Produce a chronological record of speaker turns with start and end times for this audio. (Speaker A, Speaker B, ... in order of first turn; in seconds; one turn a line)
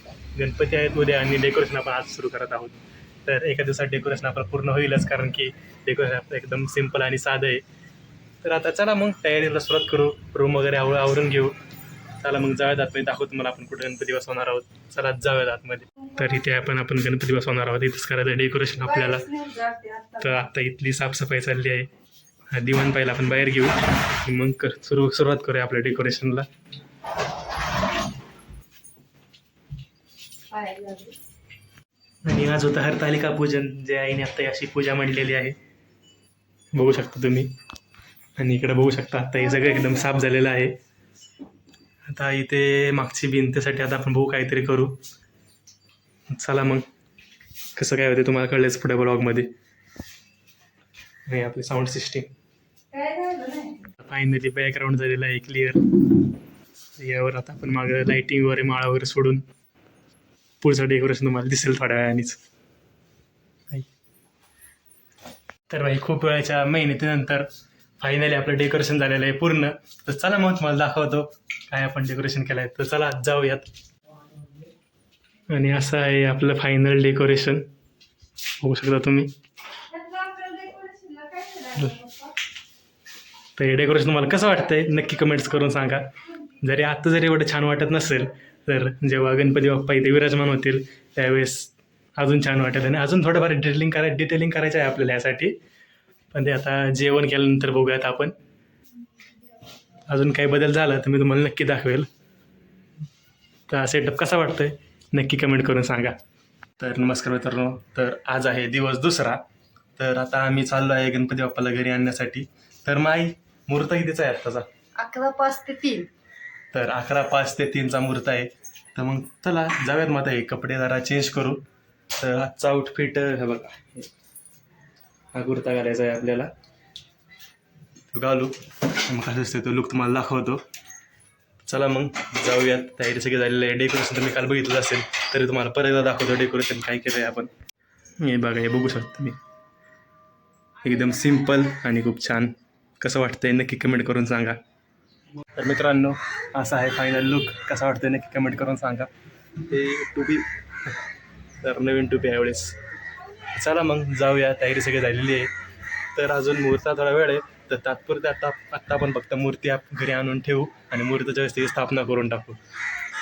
Speaker A: 0.3-7.6
Speaker A: 8.4-11.5
Speaker A: 12.2-19.2
Speaker B: 18.8-20.4
Speaker A: 20.2-21.9
Speaker A: 22.5-26.4
Speaker B: 30.5-31.1
Speaker A: 32.2-35.5
Speaker A: 36.7-37.5
Speaker A: 38.4-40.7
Speaker B: 39.4-40.0
Speaker A: 42.1-44.9
Speaker A: 46.3-46.8
Speaker A: 47.8-49.5
Speaker A: 51.3-52.3
Speaker B: 52.9-53.9
Speaker A: 54.0-55.8
Speaker A: 57.0-59.4
Speaker A: 60.6-62.4
Speaker A: 65.7-67.5
Speaker A: 68.0-73.7
Speaker A: 75.5-77.7
Speaker A: 78.6-79.3
Speaker B: 79.9-82.3
Speaker A: 83.5-86.1
Speaker A: 86.6-95.5
Speaker A: 96.3-98.3
Speaker A: 100.1-102.1
Speaker A: 103.7-106.1
Speaker A: 106.8-109.4
Speaker A: 110.0-114.7
Speaker B: 115.0-116.0
Speaker A: 116.7-121.6
Speaker A: 122.2-124.1
Speaker A: 125.3-126.5
Speaker A: 128.1-128.5
Speaker A: 129.1-130.6
Speaker A: 131.7-137.5
Speaker A: 138.2-139.3
Speaker A: 140.8-144.6
Speaker A: 145.6-149.1
Speaker A: 149.7-150.9
Speaker A: 151.6-152.7
Speaker A: 153.5-155.5
Speaker A: 156.1-162.6